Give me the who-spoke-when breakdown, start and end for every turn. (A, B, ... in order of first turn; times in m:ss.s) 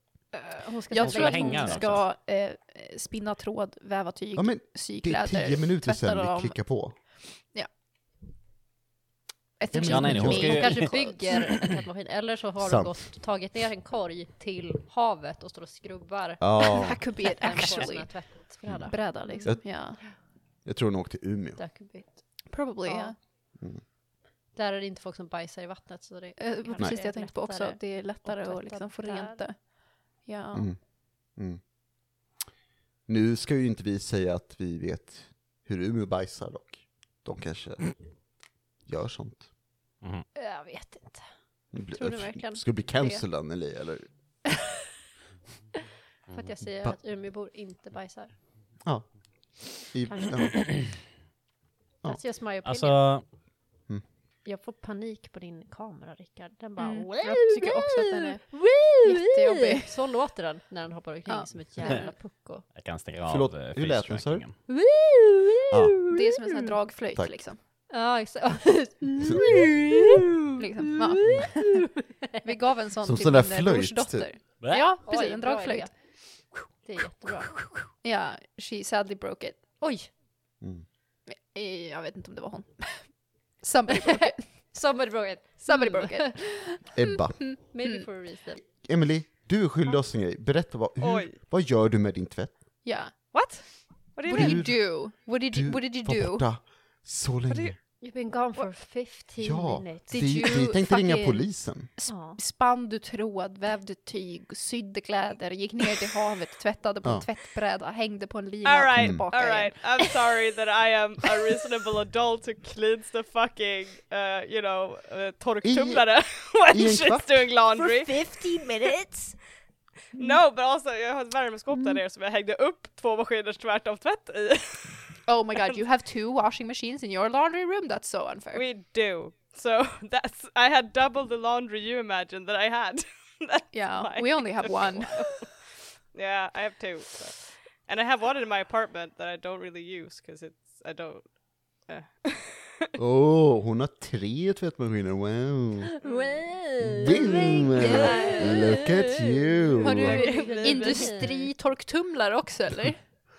0:00.3-0:06.6 A
0:00.6-0:01.9 B
0:01.0-0:02.0 C
0:04.4-0:07.0 D
0:09.6-0:10.9 A
0:09.7-0:10.9 D
0:09.9-0:11.0 C
0:10.1-0:19.5 B
0:12.6-0:13.0 D
0:16.4-0:17.0 D
0:16.6-0:20.0 A
0:18.6-0:19.6 D
0:20.6-0:21.6 D
0:21.6-0:23.1 B
0:22.5-0:23.2 A
0:24.5-0:29.4 B
0:26.4-0:30.7 A
0:30.5-0:30.8 D
0:31.3-0:31.6 D
0:33.1-0:38.0 D
0:38.9-0:39.5 D
0:40.4-0:41.3 B
0:41.7-0:44.1 D
0:41.9-0:43.2 B
0:46.3-0:48.4 B
0:48.8-0:51.0 D
0:50.0-0:50.6 B
0:52.0-0:53.2 B
0:52.6-0:53.3 C
0:54.4-1:02.7 B
0:56.8-1:00.0 A
1:01.3-1:02.1 A
1:02.7-1:04.6 C
1:03.3-1:04.4 D
1:04.7-1:06.7 B
1:05.7-1:06.0 D
1:06.1-1:07.6 A
1:07.9-1:12.5 B
1:10.6-1:11.8 A
1:12.4-1:15.9 A
1:13.0-1:14.3 D
1:14.6-1:14.9 C
1:15.0-1:15.9 B
1:16.8-1:17.7 B
1:17.5-1:19.8 A
1:19.8-1:20.1 B
1:20.6-1:20.9 D
1:21.3-1:24.6 A
1:23.9-1:26.8 B
1:25.6-1:28.1 A
1:26.9-1:27.6 D
1:27.6-1:28.6 B
1:28.8-1:32.5 D
1:31.0-1:31.4 E
1:32.8-1:33.3 A
1:33.3-1:34.6 E
1:34.3-1:36.4 A
1:34.3-1:37.8 D
1:37.5-1:37.8 E
1:38.0-1:40.6 B
1:39.4-1:41.9 D
1:40.1-1:50.2 A
1:42.1-1:42.4 B
1:48.6-1:58.4 E
1:49.0-1:49.2 D
1:55.6-1:56.1 D
1:56.7-1:57.5 D
1:57.8-1:59.4 A
2:00.1-2:05.0 E
2:01.7-2:02.0 A
2:05.3-2:08.6 A
2:08.5-2:15.5 E
2:13.7-2:15.3 A
2:16.1-2:21.3 E
2:21.9-2:22.9 E
2:23.0-2:25.9 D
2:26.0-2:31.5 B
2:26.0-2:26.4 E
2:26.8-2:30.2 D
2:27.5-2:28.3 A
2:27.8-2:28.5 E
2:29.8-2:33.0 A
2:29.9-2:31.2 E